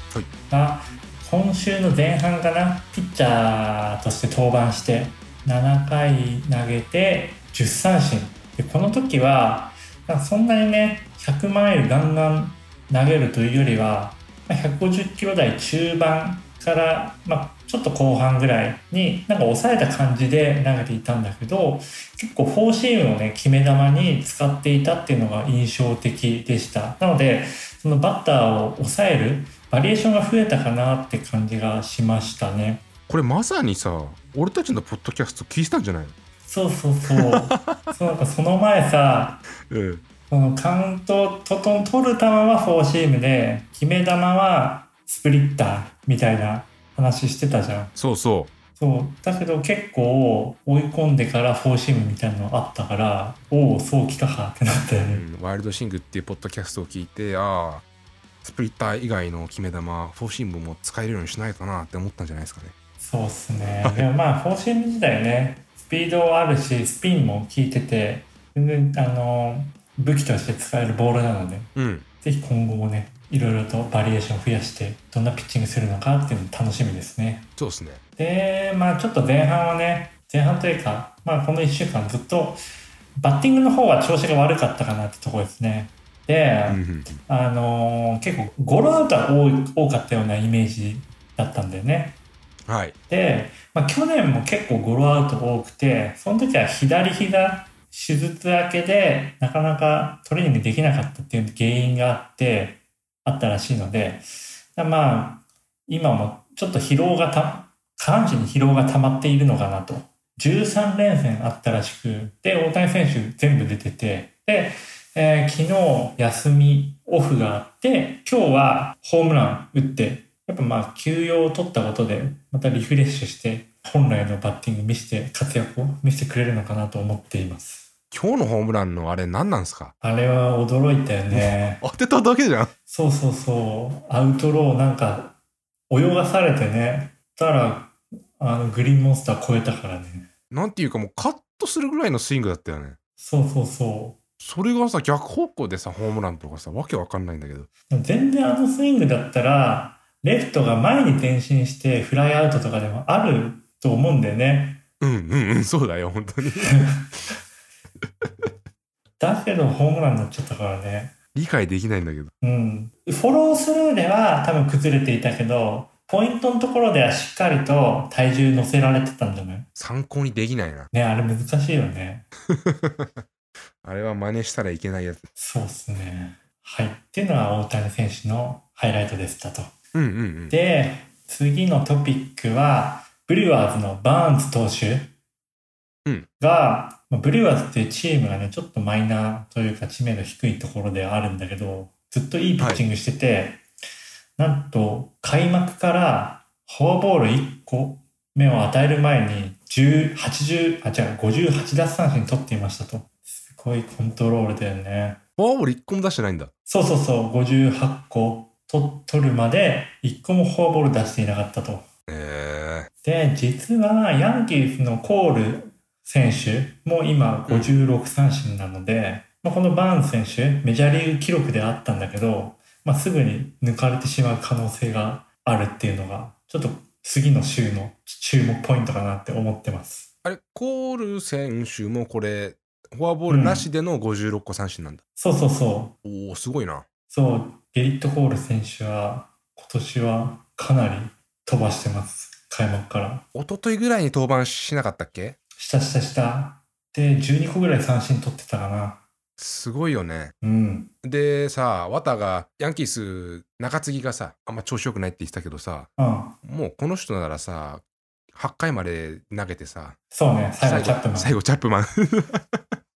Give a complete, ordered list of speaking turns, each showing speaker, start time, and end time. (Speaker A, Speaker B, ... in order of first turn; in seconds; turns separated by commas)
Speaker A: 0.5-32.8, Speaker B: 33.1-36.1, Speaker A: 36.4-39.4, Speaker B: 37.1-37.9, Speaker B: 39.7-40.0, Speaker A: 40.3-47.9, Speaker B: 47.9-48.5, Speaker A: 48.8-55.2, Speaker B: 55.0-57.8, Speaker B: 58.4-62.7, Speaker A: 63.0-71.7, Speaker B: 71.8-72.0, Speaker A: 72.2-77.5, Speaker B: 77.6-78.0, Speaker A: 78.2-82.6, Speaker A: 83.2-92.2, Speaker B: 86.7-87.2, Speaker B: 92.7-93.0, Speaker A: 93.1-127.9, Speaker B: 128.1-129.9, Speaker A: 130.0-131.8, Speaker B: 131.3-132.7, Speaker A: 132.9-135.3, Speaker A: 135.9-140.3, Speaker B: 140.5-143.0, Speaker A: 143.2-144.2, Speaker B: 144.4-147.7, Speaker A: 147.9-154.8, Speaker B: 155.0-157.2, Speaker A: 156.7-157.0, Speaker A: 159.2-161.1, Speaker B: 161.3-162.3, Speaker A: 162.4-169.7, Speaker B: 169.7-170.9, Speaker A: 170.9-172.2, Speaker B: 172.5-173.2, Speaker B: 173.8-175.3, Speaker A: 175.4-179.7, Speaker B: 179.9-180.6, Speaker A: 180.5-185.1, Speaker A: 186.4-193.6, Speaker A: 194.4-205.2, Speaker B: 205.4-206.5, Speaker A: 206.7-211.9, Speaker B: 212.1-212.9, Speaker A: 213.0-230.1, Speaker B: 217.5-217.8, Speaker B: 230.2-235.0, Speaker A: 233.3-233.7, Speaker A: 235.2-235.9, Speaker B: 236.0-236.8, Speaker A: 237.1-243.2, Speaker B: 243.3-245.4, Speaker A: 245.6-249.0, Speaker B: 249.4-250.3, Speaker A: 250.4-250.9, Speaker B: 251.0-255.9, Speaker A: 256.0-256.4, Speaker B: 256.4-257.8, Speaker B: 258.3-260.0, Speaker A: 260.1-261.4, Speaker B: 260.6-262.6